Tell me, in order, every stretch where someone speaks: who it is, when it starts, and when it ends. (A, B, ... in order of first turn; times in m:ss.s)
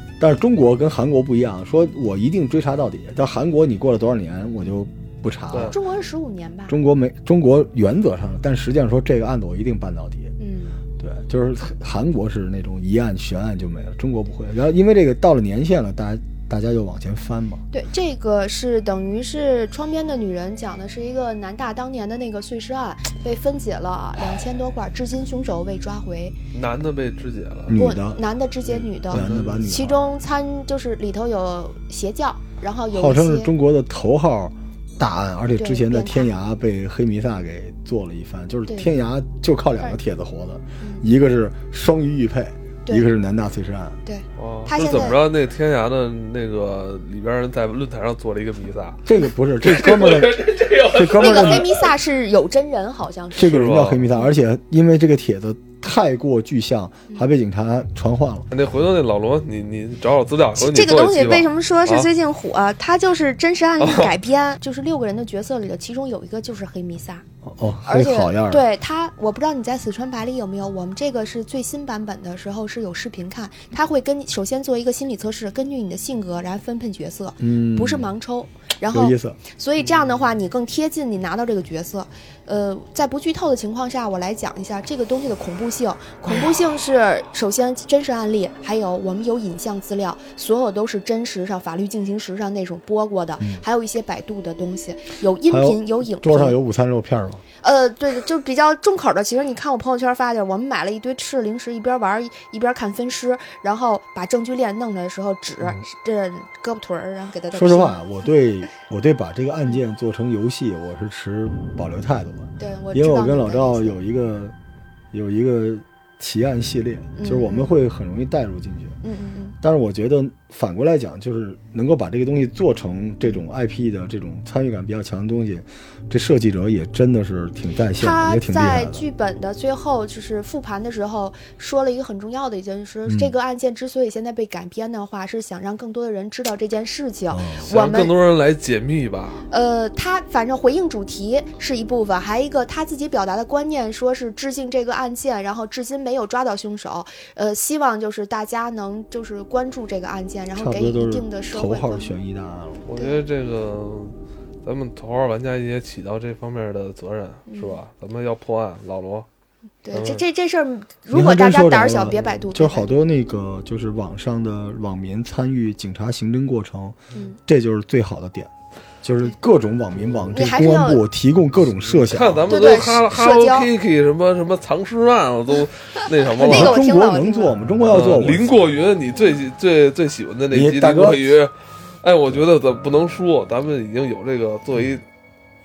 0:00.2-0:05.8 A
0:05.5-0:05.8 B
0:05.7-0:06.7 C
0:06.7-0:10.3 A
0:10.4-0:10.8 C
0:11.0-0:17.6 A
0:17.7-0:26.4 C
0:26.5-0:27.8 B
0:27.7-0:28.2 A
0:27.8-0:33.5 C
0:28.7-0:29.6 B
0:29.1-0:30.0 A
0:32.9-0:44.0 A
0:35.6-0:36.4 C
0:40.8-0:41.0 C
0:44.0-0:45.2 C
0:44.4-0:49.0 B
0:49.0-0:51.7 A
0:49.6-0:51.8 B
0:51.1-0:53.6 C
0:53.4-0:58.5 A
0:53.4-0:54.1 B
0:58.5-1:02.1 B
1:00.6-1:07.2 C
1:03.8-1:04.1 B
1:07.4-1:08.6 A
1:07.9-1:36.6 C
1:17.4-1:18.1 A
1:18.9-1:19.4 A
1:35.5-1:37.4 A
1:37.6-1:48.0 C
1:47.5-1:54.5 A
1:52.6-1:54.0 C
1:55.1-1:59.0 A
1:57.2-1:57.7 C
1:59.0-1:59.6 C
1:59.6-2:09.0 A
2:08.0-2:18.1 C
2:13.0-2:13.3 A
2:17.3-2:17.6 A
2:17.7-2:19.4 B
2:19.5-2:32.1 C
2:30.6-2:32.9 A
2:32.9-2:39.3 B
2:37.5-2:37.8 C
2:39.8-2:42.9 C
2:39.9-2:40.2 B
2:41.1-2:48.5 A
2:49.0-2:52.5 A
2:50.3-2:51.0 C
2:51.9-2:56.8 B
2:52.5-2:53.7 C
2:56.4-2:57.5 C
2:56.4-2:58.6 A
2:57.9-3:01.5 B
3:00.5-3:01.3 A
3:02.0-3:05.0 B